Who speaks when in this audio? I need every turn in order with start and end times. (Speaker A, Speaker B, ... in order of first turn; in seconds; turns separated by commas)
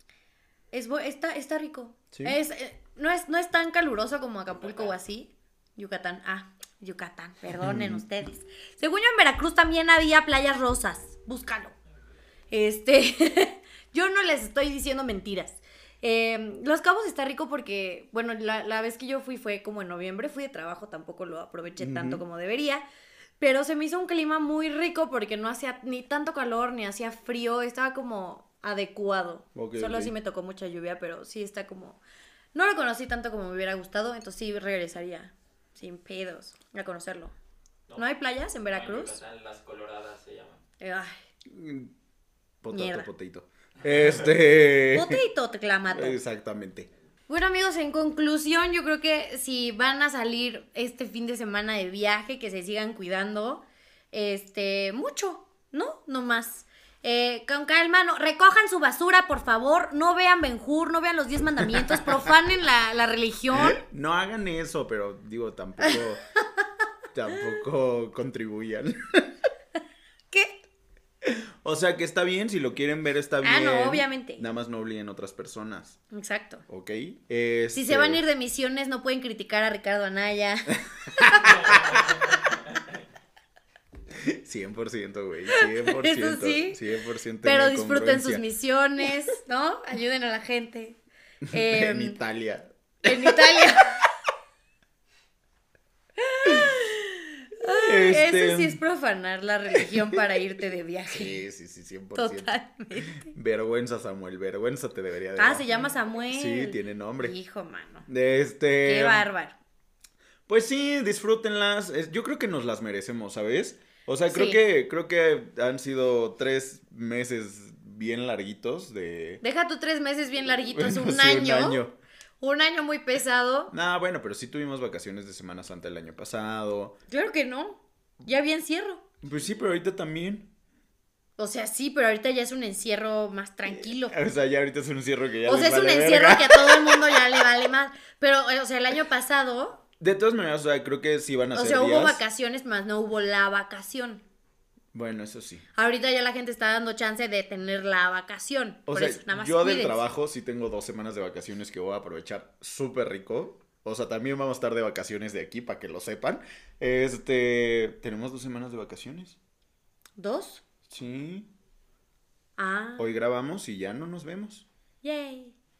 Speaker A: 0.7-11.7, Speaker B: 2.1-2.4, Speaker C: 4.7-4.9, Speaker B: 7.6-8.0, Speaker A: 12.5-22.8, Speaker B: 21.8-22.2, Speaker A: 23.4-32.0, Speaker B: 29.5-30.1, Speaker A: 32.5-37.3, Speaker A: 38.0-39.2, Speaker C: 38.6-40.6, Speaker A: 40.8-41.2, Speaker B: 41.5-41.9, Speaker B: 42.6-45.2, Speaker A: 42.7-43.1, Speaker A: 44.9-46.2, Speaker B: 45.9-46.9, Speaker A: 47.3-63.8, Speaker B: 61.7-62.2, Speaker B: 63.5-66.2, Speaker B: 67.1-69.3, Speaker A: 70.3-70.6, Speaker B: 71.2-76.0, Speaker A: 73.4-74.4, Speaker A: 76.1-76.6, Speaker B: 76.7-78.2, Speaker A: 77.7-81.6, Speaker B: 81.0-81.8, Speaker C: 81.4-83.0, Speaker B: 84.1-88.4, Speaker A: 85.5-86.8, Speaker A: 87.4-91.0, Speaker B: 91.5-93.8, Speaker A: 91.5-92.2, Speaker A: 93.0-94.0, Speaker A: 96.2-101.4, Speaker B: 97.6-98.8, Speaker B: 99.7-100.2, Speaker B: 101.1-107.3, Speaker A: 102.1-103.3, Speaker A: 105.3-108.1, Speaker B: 108.1-109.3, Speaker A: 108.8-109.5, Speaker B: 110.5-119.4, Speaker A: 114.3-114.6, Speaker A: 119.4-121.8, Speaker B: 120.6-121.9, Speaker A: 122.4-123.7, Speaker B: 123.7-127.0, Speaker A: 127.1-129.0, Speaker B: 129.2-130.5, Speaker A: 131.4-134.1, Speaker B: 134.1-137.3, Speaker A: 135.4-139.8, Speaker B: 140.0-142.2, Speaker A: 141.5-144.2, Speaker B: 144.9-145.7, Speaker A: 145.7-150.0, Speaker B: 148.9-159.4, Speaker A: 160.2-160.6, Speaker B: 160.9-161.5, Speaker A: 162.6-163.1, Speaker B: 163.0-164.7, Speaker A: 165.0-165.5